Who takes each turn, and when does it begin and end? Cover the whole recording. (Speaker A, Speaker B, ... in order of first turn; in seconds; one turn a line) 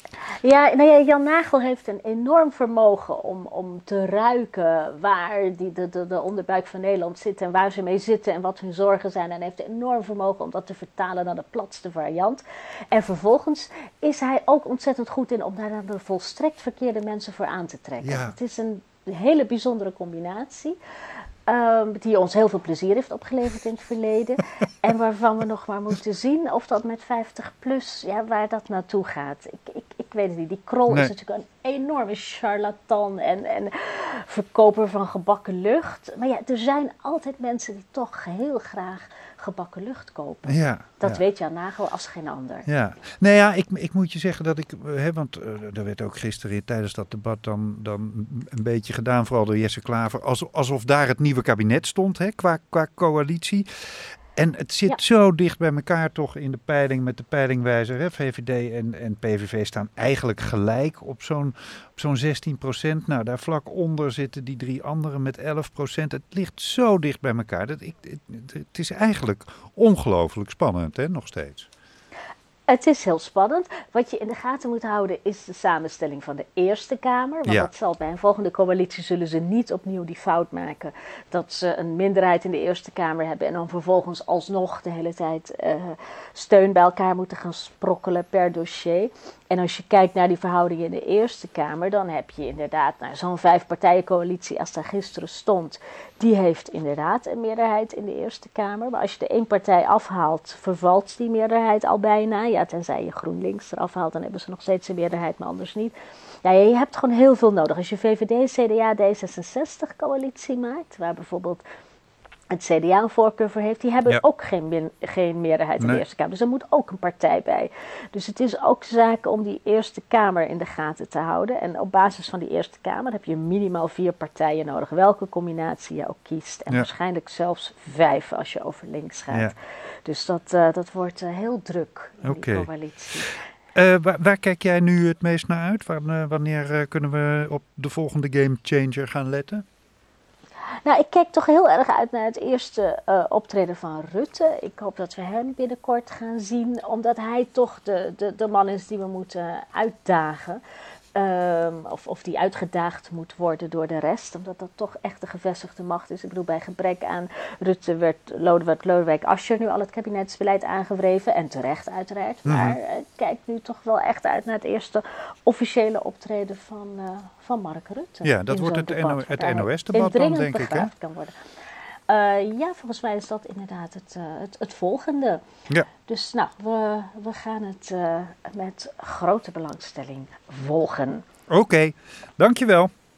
Speaker A: 0.2-20.8
Speaker B: 18.0-18.3
Speaker A: 21.5-42.6
Speaker B: 40.5-41.2
Speaker B: 42.7-53.7
Speaker B: 54.4-71.7
Speaker A: 72.7-111.6
Speaker A: 112.5-133.4
Speaker B: 115.8-116.0
Speaker B: 132.2-139.6
Speaker A: 140.8-150.6
Speaker A: 151.1-171.3
Speaker B: 162.4-162.8
Speaker B: 168.2-170.9
Speaker A: 172.1-175.4
Speaker A: 176.1-181.2
Speaker B: 181.5-182.9